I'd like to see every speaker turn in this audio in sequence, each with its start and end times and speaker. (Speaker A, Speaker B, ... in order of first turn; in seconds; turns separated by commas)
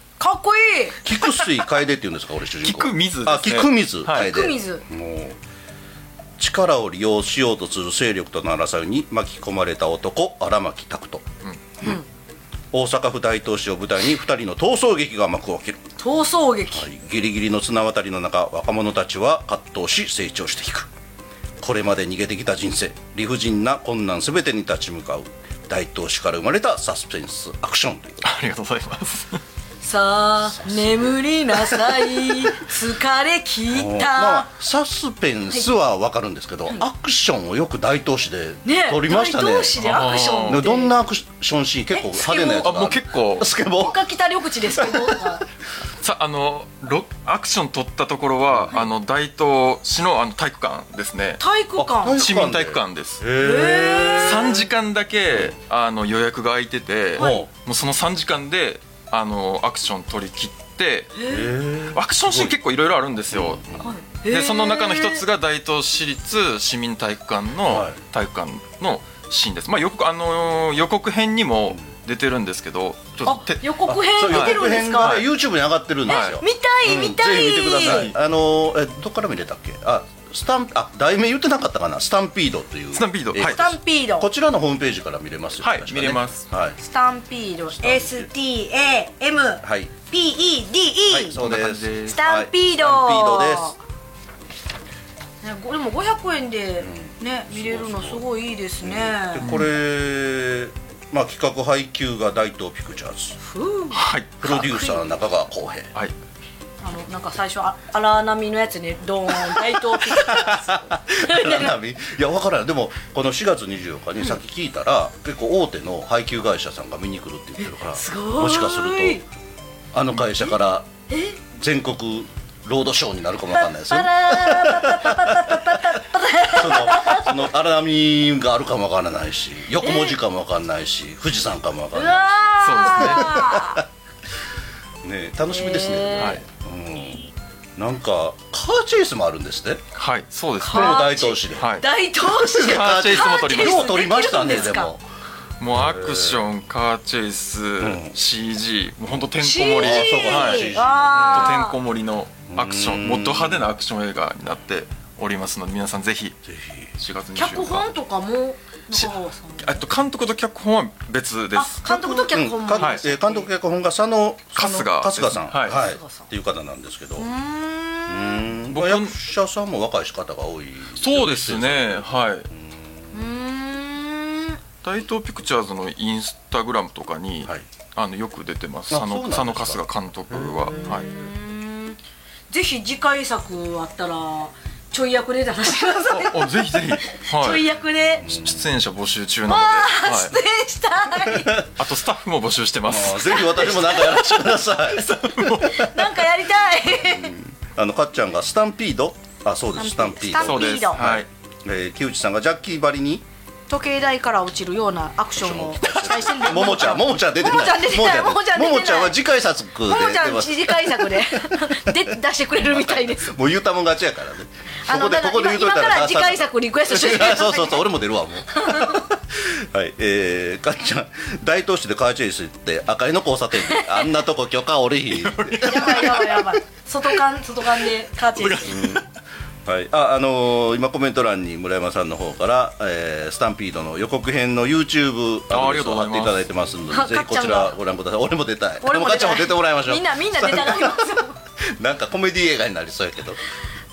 Speaker A: 0.2-1.2, Speaker B: 1.0-5.4, Speaker C: 2.6-4.3, Speaker A: 4.1-4.8, Speaker B: 6.4-11.3, Speaker B: 12.7-15.8, Speaker A: 16.0-16.9, Speaker B: 16.7-20.9, Speaker B: 21.6-28.3, Speaker C: 28.2-29.4, Speaker A: 29.8-34.5, Speaker B: 30.4-31.2, Speaker B: 33.7-44.0, Speaker A: 38.6-40.9, Speaker C: 39.8-40.6, Speaker A: 41.9-42.7, Speaker C: 42.6-43.5, Speaker A: 43.8-45.4, Speaker B: 44.7-45.4, Speaker C: 46.0-51.4, Speaker A: 51.4-52.2, Speaker B: 51.8-54.6, Speaker C: 52.1-53.2, Speaker A: 53.4-54.6, Speaker C: 54.2-61.1, Speaker B: 57.1-57.5, Speaker A: 57.2-57.4, Speaker A: 61.1-61.5, Speaker B: 61.3-62.5, Speaker C: 61.9-63.6, Speaker B: 63.3-63.8, Speaker A: 63.8-65.2, Speaker C: 64.3-75.2, Speaker B: 67.7-68.0, Speaker A: 73.2-75.2, Speaker B: 73.8-86.8, Speaker C: 76.1-76.4, Speaker A: 76.1-78.1, Speaker C: 77.8-78.1, Speaker C: 82.9-83.6, Speaker A: 83.4-84.3, Speaker C: 85.6-86.4, Speaker A: 86.8-91.3, Speaker B: 87.8-88.3, Speaker B: 89.6-90.0, Speaker B: 91.1-93.8, Speaker C: 91.3-92.2, Speaker A: 92.1-93.8, Speaker A: 95.4-99.5, Speaker B: 96.8-98.2, Speaker B: 98.8-103.4, Speaker C: 99.4-99.7, Speaker A: 103.4-104.0, Speaker C: 103.9-104.9, Speaker B: 104.4-105.9, Speaker A: 106.8-111.7, Speaker B: 109.7-119.2, Speaker A: 117.9-119.2, Speaker B: 119.9-120.9, Speaker A: 121.1-121.4, Speaker B: 121.5-133.8, Speaker A: 123.5-127.4, Speaker A: 129.8-130.2, Speaker A: 131.9-133.8, Speaker C: 132.6-133.6, Speaker B: 135.0-139.8, Speaker A: 135.5-136.4, Speaker C: 136.2-136.4, Speaker C: 139.9-141.8, Speaker A: 140.6-144.9, Speaker B: 140.7-141.7, Speaker B: 142.2-145.0, Speaker C: 142.5-144.4, Speaker C: 145.6-156.4, Speaker B: 145.7-146.5, Speaker B: 147.8-148.2, Speaker A: 149.4-151.8, Speaker B: 149.8-151.6, Speaker B: 152.5-153.7, Speaker B: 156.4-156.9, Speaker C: 157.0-157.9, Speaker A: 157.3-159.8, Speaker C: 159.6-161.8, Speaker A: 161.5-163.5, Speaker B: 161.8-167.3, Speaker C: 162.8-163.0, Speaker C: 164.5-165.8, Speaker A: 165.7-166.3, Speaker A: 167.2-168.5, Speaker B: 168.1-173.2, Speaker C: 168.7-169.1, Speaker C: 171.0-172.5, Speaker A: 173.1-174.6, Speaker C: 174.8-181.1, Speaker B: 178.9-180.8, Speaker A: 180.7-182.0, Speaker A: 182.5-188.3, Speaker C: 186.1-187.7, Speaker B: 188.2-188.7, Speaker C: 188.4-190.3, Speaker A: 189.5-191.7, Speaker B: 191.3-191.7, Speaker C: 191.8-193.9, Speaker B: 192.8-195.1, Speaker A: 193.3-197.3, Speaker C: 195.1-196.0, Speaker B: 197.0-203.2, Speaker A: 199.8-201.0, Speaker C: 200.4-201.2, Speaker A: 203.7-209.2, Speaker B: 205.3-226.3, Speaker A: 209.8-213.4, Speaker A: 214.9-217.9, Speaker A: 218.5-219.1, Speaker A: 223.7-224.1, Speaker C: 225.2-226.2, Speaker A: 225.6-228.9, Speaker C: 228.4-229.0, Speaker B: 228.7-229.0, Speaker B: 229.7-243.4, Speaker C: 235.5-236.4, Speaker A: 236.9-237.8, Speaker A: 238.8-241.3